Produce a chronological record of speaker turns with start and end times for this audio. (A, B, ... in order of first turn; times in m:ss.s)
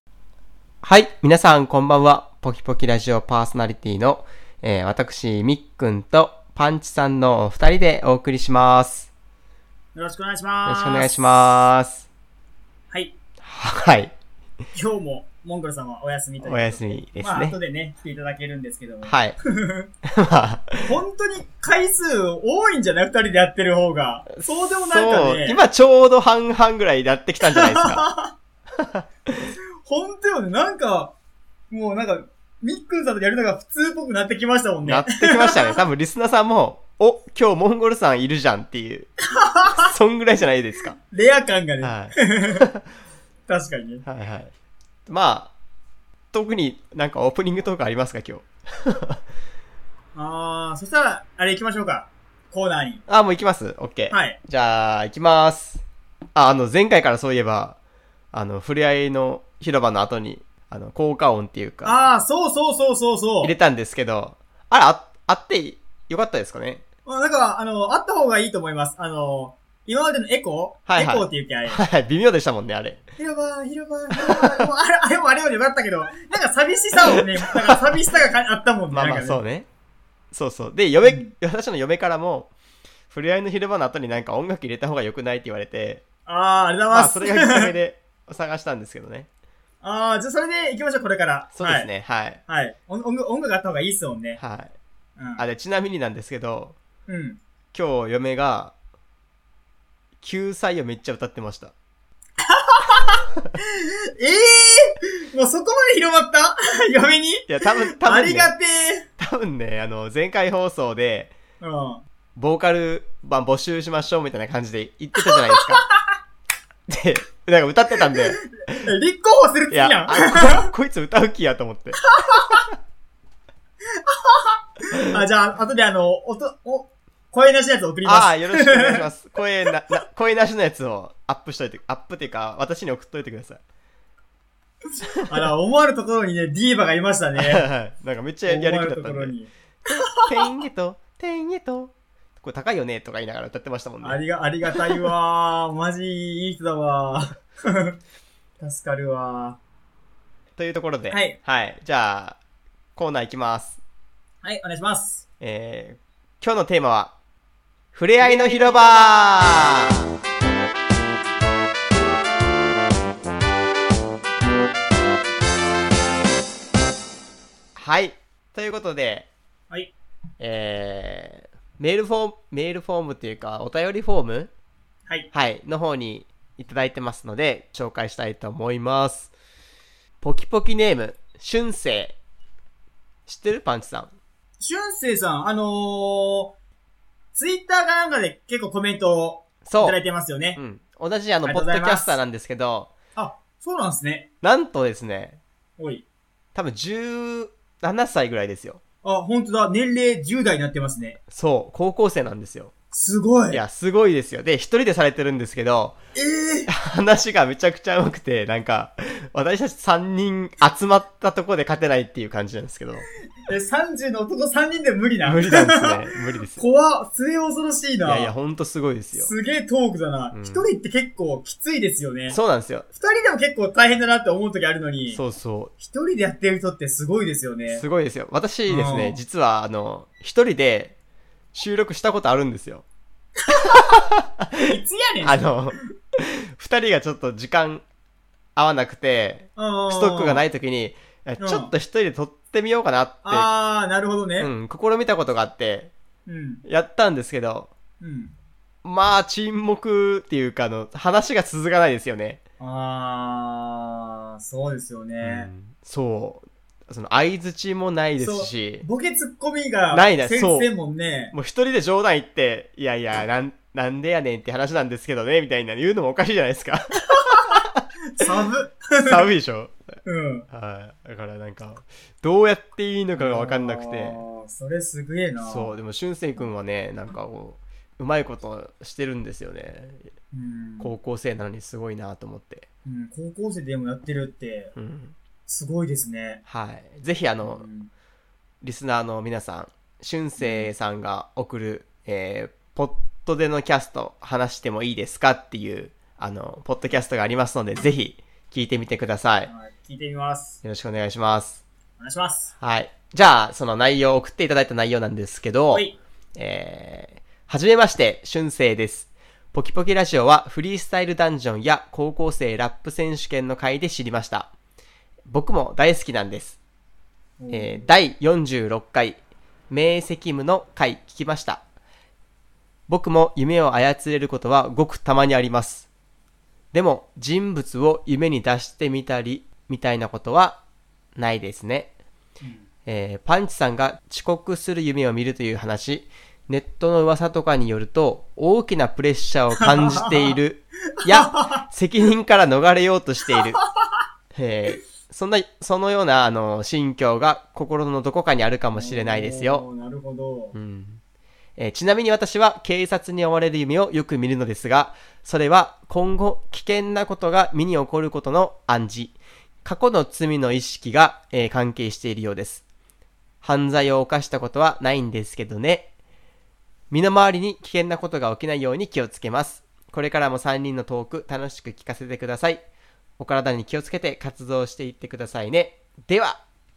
0:00.8-0:09.1 A
0:10.0-0:11.3 B
0:10.7-0:12.1 A
0:13.4-0:14.1 A
0:14.7-0:19.9 B
0:16.4-0:17.6 A
0:19.0-0:19.4 A
0:20.1-0:20.9 A
0:20.8-0:25.6 B
0:24.4-0:28.1 A
0:27.5-0:28.3 B
0:29.8-0:31.2 B
0:31.7-0:35.8 B
0:34.8-0:39.1 A
0:39.4-0:39.8 B
0:39.8-0:41.0 A
0:41.0-0:42.7 B
0:41.8-0:42.7 A
0:43.5-0:44.0 B
0:44.0-0:44.5 A
0:45.1-0:45.5 A
0:46.3-0:49.2 A
0:50.2-0:53.0 B
0:53.1-0:55.8 A
0:54.1-0:54.4 B
0:56.4-0:57.8 A
0:58.3-1:02.0 A
1:01.8-1:03.6 B
1:03.4-1:06.8 A
1:07.0-1:11.8 B
1:10.9-1:13.0 A
1:13.2-1:19.4 B
1:14.3-1:14.6 A
1:17.2-1:17.8 A
1:18.9-1:19.7 A
1:20.3-1:22.5 A
1:21.0-1:21.3 B
1:23.1-1:26.0 A
1:26.3-1:27.7 B
1:26.9-1:29.3 A
1:29.8-1:31.9 B
1:31.6-1:32.4 A
1:32.5-1:34.4 B
1:34.4-1:34.7 A
1:35.2-1:35.5 B
1:35.4-1:36.8 A
1:37.1-1:37.4 B
1:37.7-1:38.7 A
1:40.2-1:41.7 A
1:42.4-1:49.1 B
1:47.5-1:48.5 A
1:49.2-1:51.3 A
1:51.6-1:52.0 B
1:52.4-1:55.8 A
1:55.3-1:55.9 B
1:56.9-1:58.8 A
1:58.1-2:00.7 B
1:59.7-2:02.0 A
2:02.0-2:02.6 B
2:04.1-2:09.1 B
2:08.0-2:13.6 A
2:15.2-2:17.7 B
2:17.4-2:19.4 A
2:18.5-2:20.2 B
2:19.9-2:24.2 A
2:24.0-2:28.0 B
2:28.6-2:29.6 B
2:30.6-2:32.4 A
2:31.1-2:31.4 B
2:33.0-2:33.8 A
2:34.4-2:35.2 B
2:35.4-2:37.2 A
2:37.9-2:39.9 A
2:38.2-2:38.6 B
2:47.8-2:49.3 A
2:50.4-2:54.5 A
2:55.3-2:59.3 A
3:00.2-3:02.2 A
3:03.3-3:04.1 A
3:04.6-3:06.5 B
3:07.4-3:10.6 B
3:09.7-3:10.0 A
3:10.6-3:12.9 A
3:11.4-3:12.2 B
3:13.2-3:14.3 B
3:14.4-3:15.4 A
3:15.8-3:16.0 B
3:16.6-3:18.8 A
3:19.0-3:21.2 B
3:21.3-3:22.7 A
3:22.9-3:23.6 B
3:23.5-3:26.0 A
3:26.2-3:26.7 B
3:26.7-3:33.1 A
3:33.4-3:36.0 B
3:35.2-3:36.6 A
3:36.6-3:38.4 B
3:38.0-3:39.3 A
3:39.2-3:42.4 B
3:40.3-3:40.7 A
3:42.3-3:42.9 A
3:42.9-3:45.2 B
3:45.1-3:45.7 A
3:45.8-3:47.8 B
3:47.7-3:51.0 A
3:48.7-3:49.2 B
3:51.5-3:52.8 A
3:53.5-3:54.0 B
3:54.6-3:55.8 B
3:55.2-3:57.8 A
3:58.6-4:03.5 A
3:59.6-4:00.4 B
4:01.4-4:01.7 B
4:03.2-4:04.5 B
4:04.4-4:05.9 A
4:06.3-4:06.6 B
4:06.7-4:07.7 A
4:08.0-4:08.4 B
4:08.8-4:12.4 A
4:12.6-4:15.5 B
4:15.2-4:18.9 A
4:18.2-4:21.4 B
4:19.9-4:20.7 A
4:21.3-4:28.2 A
4:27.1-4:27.6 B
4:28.2-4:29.3 B
4:29.0-4:29.8 A
4:30.0-4:30.5 B
4:30.5-4:34.2 A
4:33.2-4:35.8 B
4:35.4-4:40.1 A
4:40.3-4:40.9 B
4:40.8-4:42.7 A
4:42.8-4:44.7 B
4:44.8-4:45.2 A
4:45.5-4:46.4 B
4:46.5-4:47.7 A
4:47.4-4:47.9 B
4:48.6-4:59.5 A
4:50.4-4:50.7 B
4:59.4-5:00.6 B
5:00.6-5:01.6 A
5:02.0-5:02.5 B
5:02.6-5:14.5 A
5:15.3-5:16.6 A
5:17.4-5:17.9 B
5:17.5-5:19.2 A
5:19.7-5:21.6 A
5:22.9-5:25.9 A
5:26.7-5:30.6 A
5:31.2-5:31.9 A
5:32.4-5:32.7 B
5:32.9-5:43.6 A
5:39.6-5:40.4 B
5:41.0-5:41.7 B
5:43.5-5:43.9 B
5:44.4-5:49.7 A
5:48.7-5:50.6 B
5:50.5-5:51.0 A
5:51.6-6:02.6 A
6:03.4-6:05.9 A
6:06.9-6:12.6 A
6:13.2-6:16.4 A